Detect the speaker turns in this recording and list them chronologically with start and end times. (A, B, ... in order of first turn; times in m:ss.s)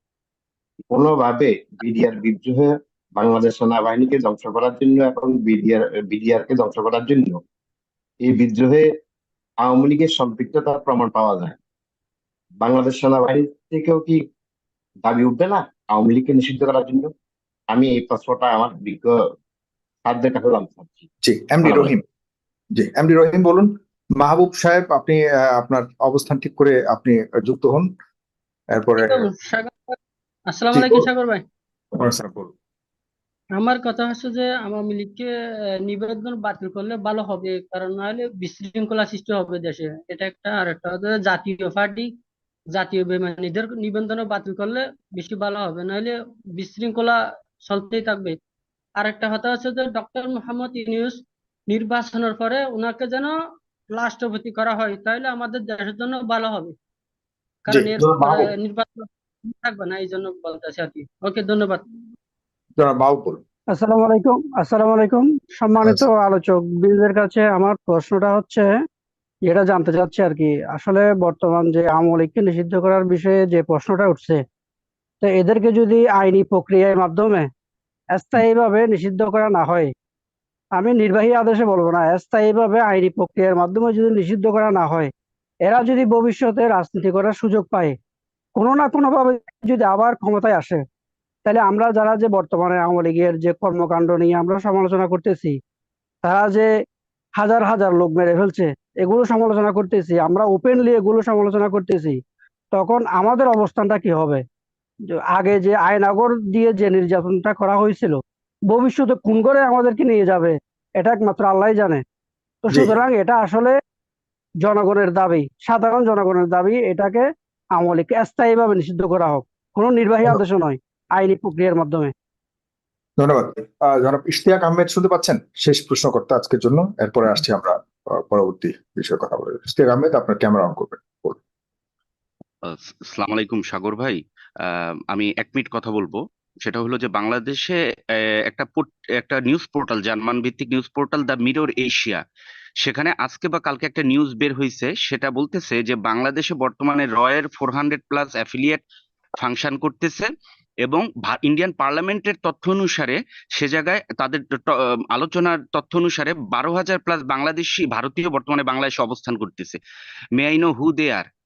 0:00.9-0:07.4 A
0:08.2-0:08.9 A
0:09.6-0:11.6 A
0:12.6-0:14.2 A
0:15.0-0:17.1 A
0:17.7-0:19.2 A
0:20.1-0:21.1 A
0:21.2-0:22.0 B
0:21.6-0:21.9 A
0:22.8-0:27.9 B
0:28.7-0:29.2 B
0:29.0-0:29.9 C
0:30.5-0:31.4 C
0:30.7-0:31.1 B
0:32.0-0:32.5 B
0:33.5-0:35.3 C
0:35.8-0:42.1 C
0:42.7-0:48.4 C
0:49.0-0:53.3 C
0:53.9-0:56.7 C
0:57.7-1:01.8 C
0:57.7-0:58.4 B
1:02.8-1:03.4 B
1:03.7-1:08.7 D
1:09.5-1:14.4 D
1:15.2-1:17.5 D
1:18.1-1:19.9 D
1:20.8-1:25.1 D
1:25.7-1:28.0 D
1:28.6-1:30.8 D
1:31.4-1:35.6 D
1:36.2-1:36.7 D
1:37.4-1:42.2 D
1:42.7-1:44.4 D
1:45.1-1:52.0 D
1:52.7-1:53.7 D
1:52.7-1:53.0 B
1:54.6-2:02.1 D
2:03.2-2:11.4 B
2:12.6-2:22.2 E
2:22.8-2:28.8 E
2:29.4-2:30.3 E
2:30.8-2:39.8 E
2:40.4-2:41.3 E